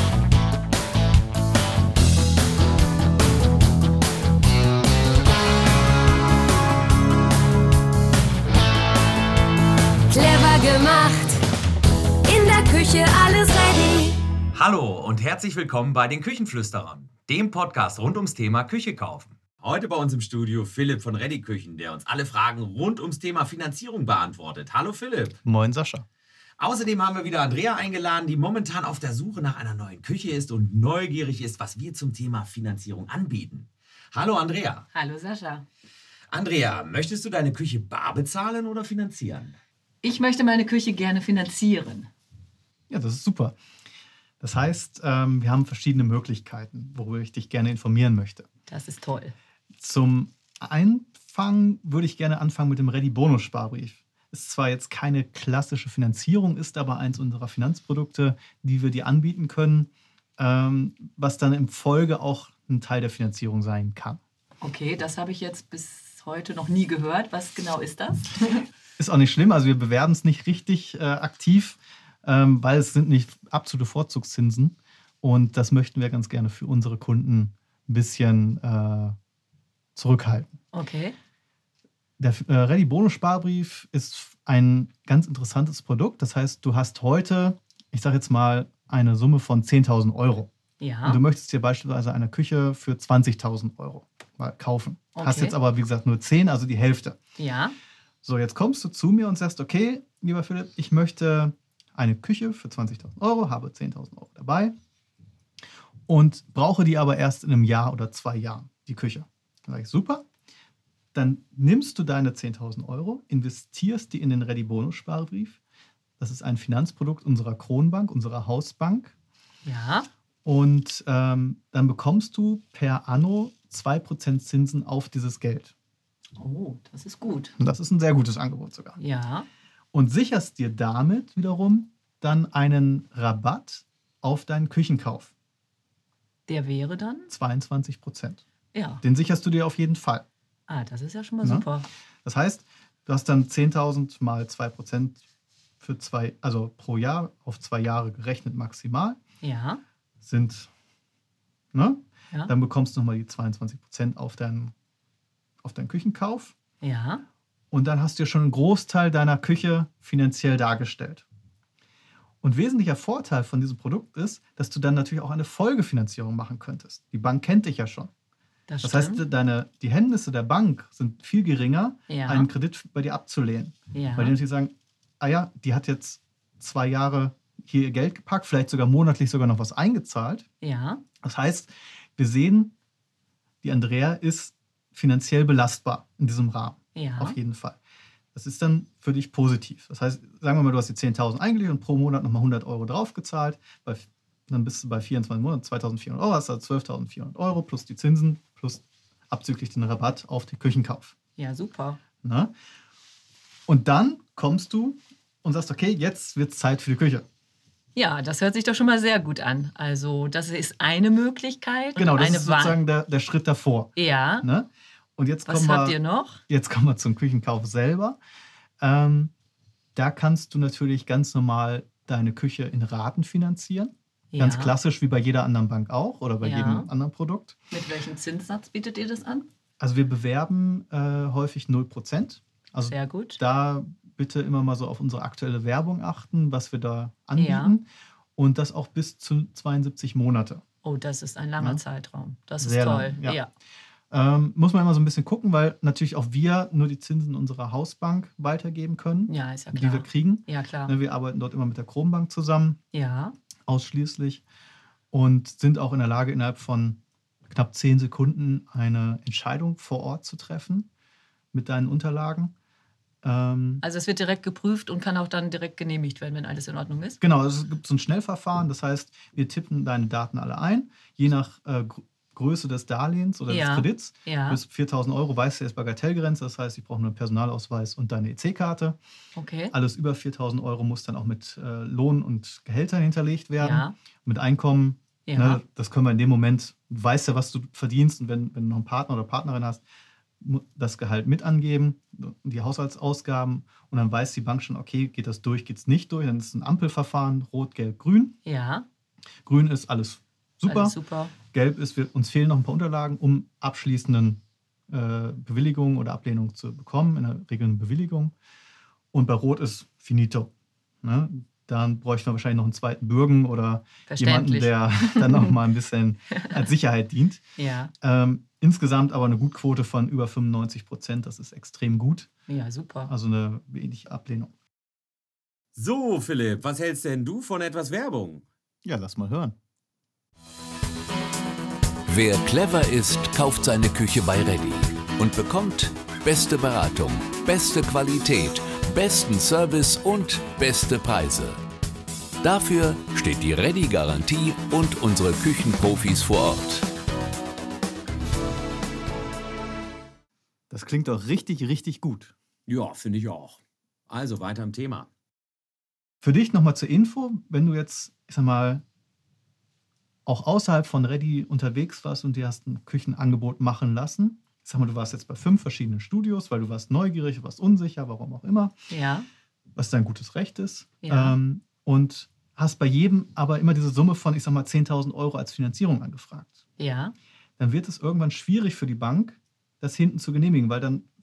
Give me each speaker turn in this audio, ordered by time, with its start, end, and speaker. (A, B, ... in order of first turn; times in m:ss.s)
0:10.1-0:11.5 A
0:12.2-0:14.3 A
0:14.6-0:25.4 B
0:25.4-0:26.1 C
0:26.6-0:34.8 B
0:34.9-0:35.7 D
0:36.3-0:39.6 B
0:40.0-0:42.1 D
0:42.9-0:43.6 C
0:44.4-0:48.5 C
0:48.7-0:49.4 D
0:49.8-1:04.2 C
1:04.6-1:08.7 D
1:09.0-1:19.2 C
1:20.0-1:20.6 C
1:20.7-1:21.2 D
1:22.2-1:30.5 C
1:30.8-1:31.2 D
1:31.0-1:37.2 C
1:35.2-1:35.6 D
1:37.4-1:37.8 D
1:38.2-1:44.8 C
1:46.1-1:50.2 C
1:51.1-1:55.6 C
1:56.2-1:59.2 C
1:59.6-2:00.1 D
2:00.4-2:05.7 C
2:06.4-2:07.5 D
2:07.6-2:09.0 C
2:09.0-2:09.5 D
2:09.9-2:15.3 C
2:16.5-2:17.3 D
2:17.3-2:18.4 C
2:18.7-2:19.0 D
2:19.0-2:20.3 C
2:20.7-2:21.9 D
2:21.4-2:21.7 C
2:22.2-2:25.2 C
2:25.8-2:29.2 C
2:29.4-2:29.8 D
2:30.2-2:30.7 C
2:31.7-2:34.7 C
2:35.6-2:36.6 C
2:36.8-2:37.2 D
2:37.7-2:41.3 C
2:42.4-2:48.1 C
2:48.7-2:49.2 D
2:48.8-3:00.5 C
2:52.1-2:52.5 D
2:53.9-2:54.4 D
3:00.6-3:01.0 D
3:01.2-3:02.7 C
3:03.6-3:07.8 C
3:07.0-3:07.4 D
3:08.3-3:21.2 C
3:21.4-3:22.0 D
3:22.2-3:22.5 C
3:23.7-3:27.2 C
3:28.0-3:32.8 D
3:32.0-3:38.2 C
3:34.0-3:34.5 D
3:35.5-3:36.4 D
3:38.8-3:39.3 C
3:40.0-3:47.6 C
3:44.3-3:44.8 D
3:46.4-3:46.9 D
3:47.7-3:49.5 D
3:49.8-4:00.6 C
3:52.9-3:53.4 D
3:57.4-3:57.8 D
4:00.8-4:03.5 D
4:02.6-4:03.4 C
4:04.1-4:12.8 C
4:09.3-4:11.0 D
4:12.9-4:13.3 D
4:13.7-4:14.4 C
4:15.1-4:20.9 C
4:21.5-4:22.5 C
4:23.2-4:23.8 C
4:23.8-4:27.2 D
4:27.2-4:39.0 C
4:33.5-4:34.6 D
4:39.4-4:39.7 D
4:39.7-4:49.8 C
4:43.6-4:43.9 D
4:45.3-4:45.6 D
4:50.4-4:58.4 C
4:58.4-4:58.9 D
4:59.4-5:01.0 C
5:00.7-5:01.3 D
5:01.5-5:08.3 C
5:09.1-5:10.5 C
5:11.0-5:17.4 C
5:14.1-5:15.6 D
5:17.6-5:17.9 D
5:18.0-5:22.3 C
5:22.5-5:23.1 D
5:23.1-5:24.5 C
5:25.8-5:28.4 B
5:28.8-5:29.6 C
5:32.1-5:41.6 E
5:42.4-5:46.9 E
5:50.7-5:52.3 C
5:52.7-5:55.1 B
5:56.2-5:58.8 C
6:00.3-6:08.7 C
6:08.9-6:09.3 D
6:09.8-6:16.6 C
6:11.0-6:11.4 D
6:16.8-6:17.1 D
6:17.6-6:21.1 C